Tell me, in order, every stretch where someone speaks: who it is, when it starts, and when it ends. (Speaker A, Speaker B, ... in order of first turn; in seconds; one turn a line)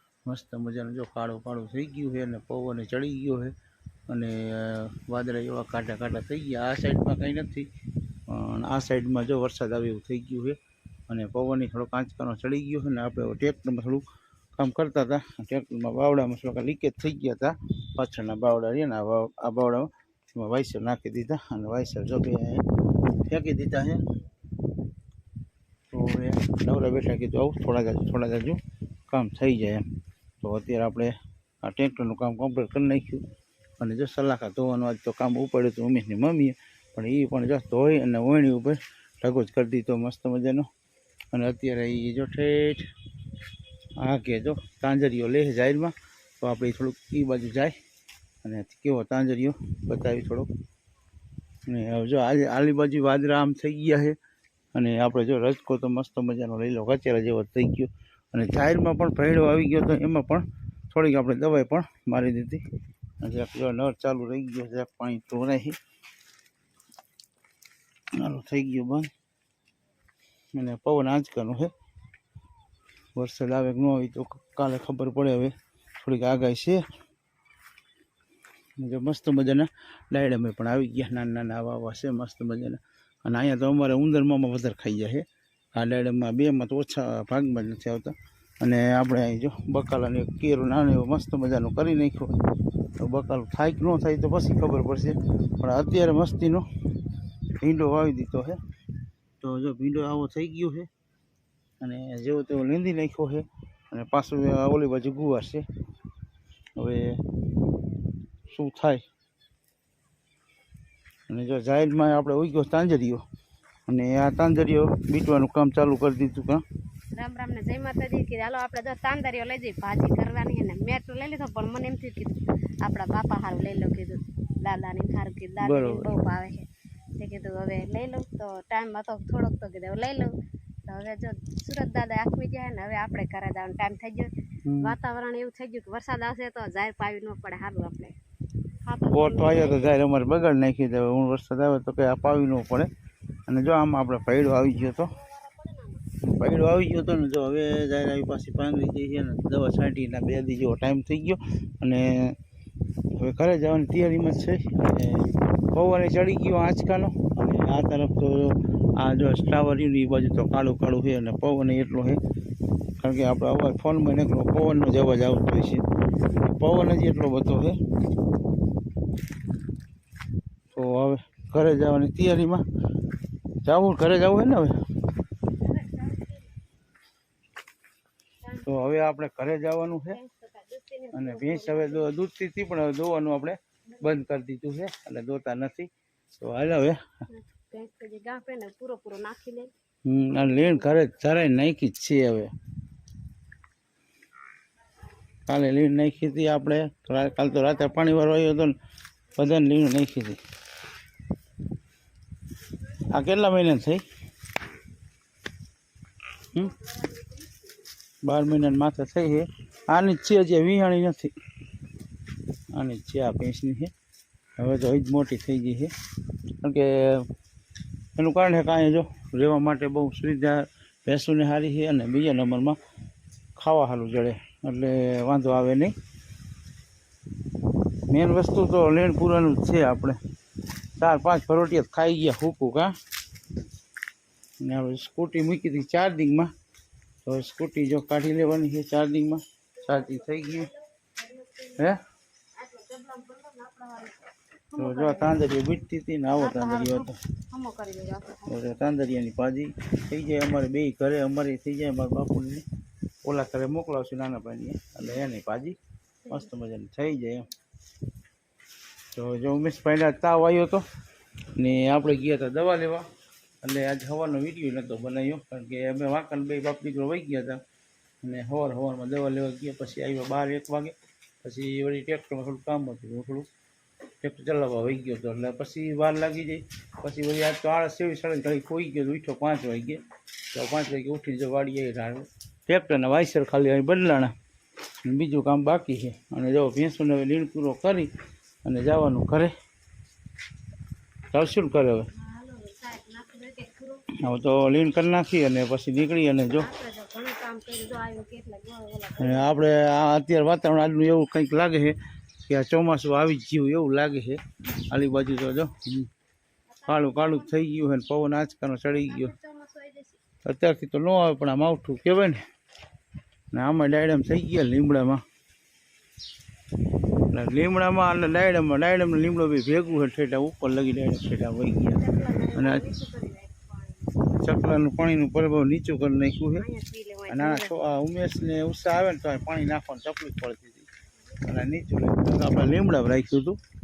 Speaker A: 0.3-3.5
Speaker A: 4.1-7.7
Speaker A: 8.3-10.6
Speaker A: 11.1-14.0
Speaker A: 14.6-22.6
Speaker A: 23.3-24.0
Speaker A: 25.9-29.8
Speaker A: 30.4-33.2
Speaker A: 33.8-40.7
Speaker A: 41.3-42.9
Speaker A: 44.0-47.7
Speaker A: 48.4-50.5
Speaker A: 51.7-54.2
Speaker A: 54.7-62.6
Speaker A: 63.2-65.8
Speaker A: 68.2-69.1
Speaker A: 70.5-71.7
Speaker A: 73.2-76.8
Speaker A: 78.8-92.4
Speaker A: 93.0-96.6
Speaker A: 97.6-98.6
Speaker A: 99.4-100.9
Speaker A: 101.8-105.6
Speaker A: 106.8-107.2
Speaker A: 108.5-109.0
Speaker A: 111.3-113.2
Speaker A: 113.9-116.6
Speaker B: 117.2-130.3
Speaker A: 125.6-126.1
Speaker B: 130.8-138.2
Speaker A: 134.7-134.9
Speaker B: 138.8-140.0
Speaker A: 139.1-142.9
Speaker A: 143.5-145.1
Speaker B: 145.2-146.0
Speaker A: 146.2-152.4
Speaker A: 153.1-162.2
Speaker A: 163.0-167.8
Speaker A: 170.7-172.6
Speaker A: 173.6-174.7
Speaker B: 175.6-176.4
Speaker A: 178.6-180.2
Speaker B: 180.1-182.1
Speaker A: 181.1-187.1
Speaker B: 187.3-189.7
Speaker A: 190.1-192.5
Speaker B: 190.3-190.9
Speaker A: 195.5-198.8
Speaker A: 199.3-200.4
Speaker A: 202.9-204.0
Speaker A: 206.5-206.8
Speaker A: 208.2-211.3
Speaker A: 212.7-213.9
Speaker A: 214.6-215.9
Speaker A: 216.6-217.3
Speaker A: 218.2-222.8
Speaker A: 223.6-225.9
Speaker A: 228.1-230.2
Speaker A: 231.0-232.9
Speaker A: 234.6-236.5
Speaker A: 237.2-240.7
Speaker B: 239.8-241.9
Speaker B: 242.5-245.5
Speaker A: 244.8-247.2
Speaker B: 246.4-248.6
Speaker A: 248.5-252.6
Speaker A: 253.2-255.8
Speaker B: 256.2-256.5
Speaker A: 256.3-257.4
Speaker A: 259.1-260.8
Speaker A: 261.6-263.1
Speaker A: 263.6-267.6
Speaker A: 268.2-273.5
Speaker A: 274.2-284.3
Speaker A: 285.0-288.1
Speaker A: 288.6-289.5
Speaker A: 291.3-292.1
Speaker B: 292.1-294.3
Speaker A: 294.2-296.7
Speaker B: 296.5-299.5
Speaker A: 299.2-306.1
Speaker B: 306.7-307.6
Speaker A: 306.9-309.3
Speaker B: 308.9-310.2
Speaker A: 310.4-312.4
Speaker A: 313.5-315.2
Speaker A: 317.3-322.0
Speaker B: 321.9-324.2
Speaker A: 322.5-322.8
Speaker A: 324.4-326.6
Speaker B: 326.6-327.7
Speaker A: 327.3-330.9
Speaker A: 331.4-333.6